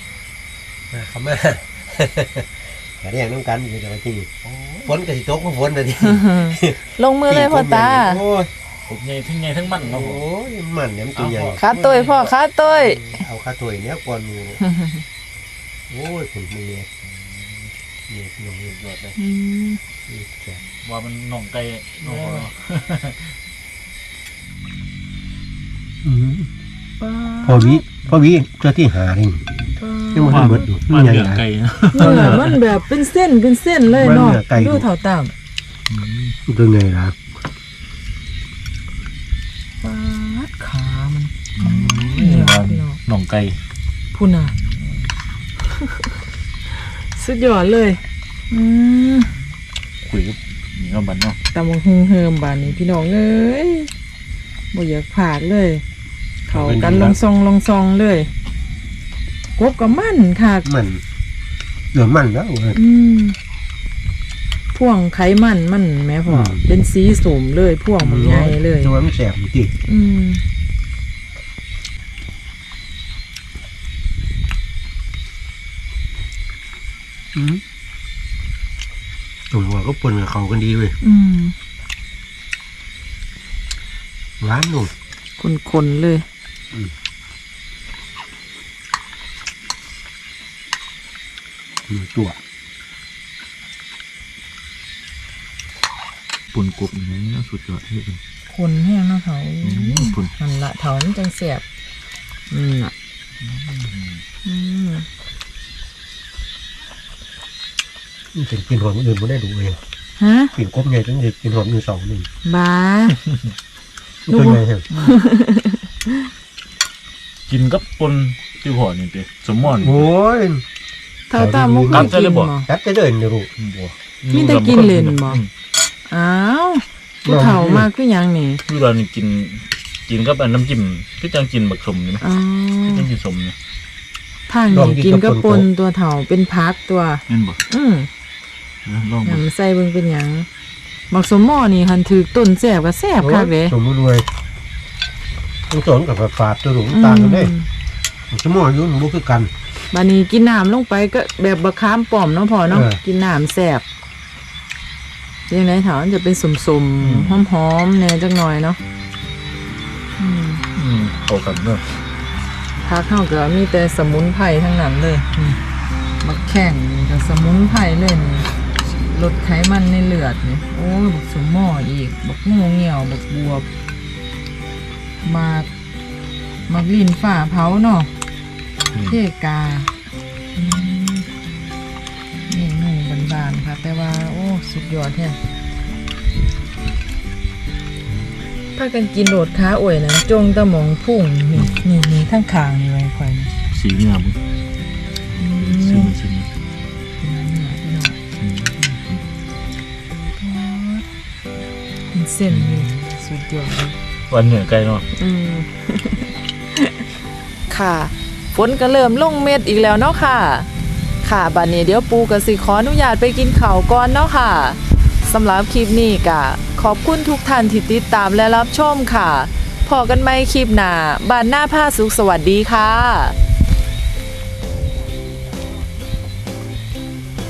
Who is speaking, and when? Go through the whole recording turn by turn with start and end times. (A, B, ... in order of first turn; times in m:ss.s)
0:00.9-0:04.3 A
0:04.4-0:04.9 B
0:04.8-0:08.5 A
0:06.0-0:08.2 C
0:08.9-0:10.2 B
0:09.7-0:11.6 A
0:11.2-0:12.3 B
0:11.6-0:13.0 C
0:12.7-0:14.6 A
0:14.6-0:15.0 C
0:15.9-0:16.9 A
0:18.1-0:19.1 A
0:19.2-0:19.8 C
0:20.0-0:20.6 A
0:20.8-0:23.3 B
0:22.0-0:22.5 A
0:26.0-0:26.5 A
0:27.0-0:27.8 C
0:27.4-0:29.5 A
0:29.8-0:30.6 C
0:30.1-0:31.4 A
0:30.3-0:32.6 B
0:31.9-0:35.3 C
0:32.0-0:32.4 A
0:33.9-0:34.9 A
0:35.9-0:36.3 B
0:36.5-0:37.2 A
0:39.8-0:43.0 C
0:41.6-0:43.6 B
0:44.1-0:44.5 C
0:44.5-0:45.0 B
0:45.7-0:46.1 C
0:47.0-0:49.4 C
0:50.1-0:51.4 B
0:51.5-0:53.9 C
0:54.7-0:55.8 C
0:56.5-0:58.3 C
0:56.5-0:57.2 A
0:59.6-1:00.7 C
1:00.6-1:01.0 A
1:01.9-1:02.8 A
1:02.7-1:03.4 C
1:04.7-1:08.9 C
1:06.3-1:06.6 A
1:08.0-1:09.7 A
1:09.9-1:10.4 C
1:17.3-1:17.6 A
1:19.5-1:21.0 A
1:21.0-1:21.5 C
1:24.4-1:24.9 A
1:25.4-1:26.2 C
1:31.9-1:32.4 A
1:36.5-1:38.2 B
1:38.5-1:41.6 C
1:39.6-1:40.3 B
1:42.5-1:42.9 C
1:43.4-1:44.2 B
1:44.4-1:45.0 C
1:48.3-1:49.8 A
1:50.2-1:50.5 C
1:50.5-1:52.3 A
1:52.4-1:53.2 C
1:54.3-1:54.9 A
1:54.3-1:56.3 C
1:57.5-2:00.0 B
1:59.8-2:00.6 A
2:01.3-2:02.7 C
2:01.3-2:03.5 A
2:01.9-2:02.5 B
2:03.6-2:05.5 B
2:04.3-2:05.4 C
2:06.1-2:08.6 C
2:07.2-2:07.9 A
2:08.7-2:12.2 B
2:12.2-2:13.1 C
2:12.9-2:13.5 B
2:14.5-2:18.1 C
2:14.7-2:15.7 A
2:17.3-2:17.6 B
2:18.8-2:19.4 B
2:19.2-2:20.5 C
2:21.1-2:23.7 C
2:23.2-2:24.2 A
2:25.7-2:27.5 A
2:26.9-2:27.7 C
2:28.3-2:29.5 A
2:29.9-2:33.8 C
2:32.7-2:33.0 A
2:35.5-2:38.8 C
2:37.0-2:37.4 B
2:40.2-2:40.6 C
2:40.7-2:41.8 B
2:42.8-2:45.6 C
2:46.2-2:48.5 C
2:49.1-2:53.6 C
2:55.2-2:55.7 C
2:56.7-2:58.1 C
2:59.1-2:59.9 C
3:00.5-3:01.3 C
3:02.5-3:05.4 C
3:08.8-3:13.5 C
3:11.5-3:11.8 B
3:13.7-3:14.4 B
3:15.3-3:16.5 B
3:15.4-3:16.1 C
3:17.2-3:18.2 C
3:18.4-3:18.8 B
3:18.8-3:19.2 C
3:20.4-3:21.1 C
3:22.1-3:24.0 C
3:22.5-3:22.9 B
3:24.3-3:25.0 B
3:25.2-3:27.0 C
3:27.7-3:30.7 C
3:31.2-3:43.4 C